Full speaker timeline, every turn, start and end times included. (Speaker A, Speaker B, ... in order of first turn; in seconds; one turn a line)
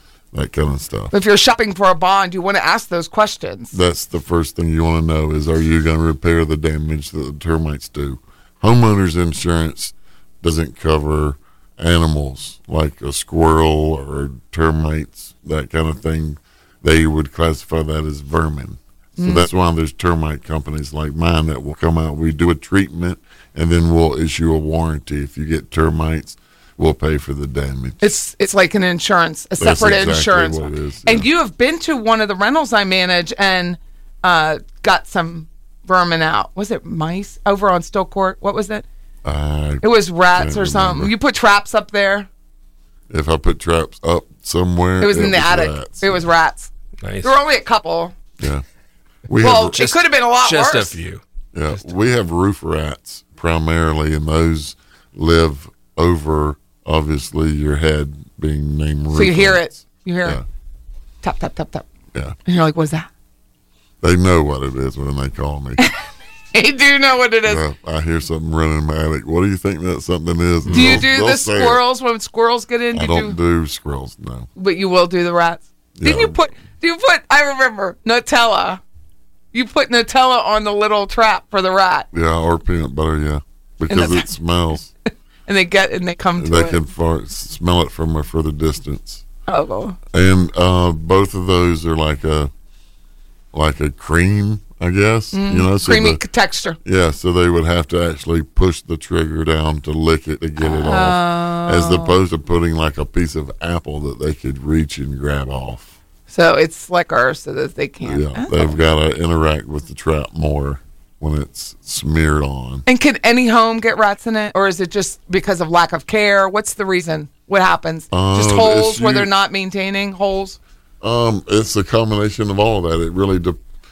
Speaker A: 0.3-1.1
Speaker B: 1.1-3.8
Speaker A: 3.7-28.1
Speaker B: 19.2-19.5
Speaker B: 28.0-38.9
Speaker A: 29.6-31.3
Speaker A: 39.2-41.1
Speaker B: 39.8-42.3
Speaker A: 43.1-46.2
Speaker B: 45.0-46.7
Speaker C: 47.0-47.4
Speaker B: 47.2-48.1
Speaker A: 49.3-49.9
Speaker B: 49.4-51.0
Speaker C: 49.8-51.9
Speaker A: 51.5-59.7
Speaker B: 59.1-60.4
Speaker B: 61.2-61.9
Speaker B: 62.5-63.1
Speaker A: 64.0-65.8
Speaker B: 66.5-67.6
Speaker A: 67.5-71.8
Speaker C: 70.7-71.0
Speaker B: 70.7-73.4
Speaker A: 72.9-74.5
Speaker B: 74.6-78.8
Speaker A: 76.0-76.4
Speaker B: 79.5-82.1
Speaker A: 82.1-84.9
Speaker B: 83.9-84.3
Speaker B: 85.5-86.8
Speaker A: 86.4-89.2
Speaker B: 89.5-90.0
Speaker A: 90.1-92.5
Speaker A: 93.5-96.2
Speaker B: 95.3-96.8
Speaker A: 96.8-105.9
Speaker B: 100.6-102.2
Speaker B: 106.3-108.7
Speaker A: 108.0-112.8
Speaker B: 112.9-120.6
Speaker A: 118.1-119.3
Speaker A: 121.0-123.6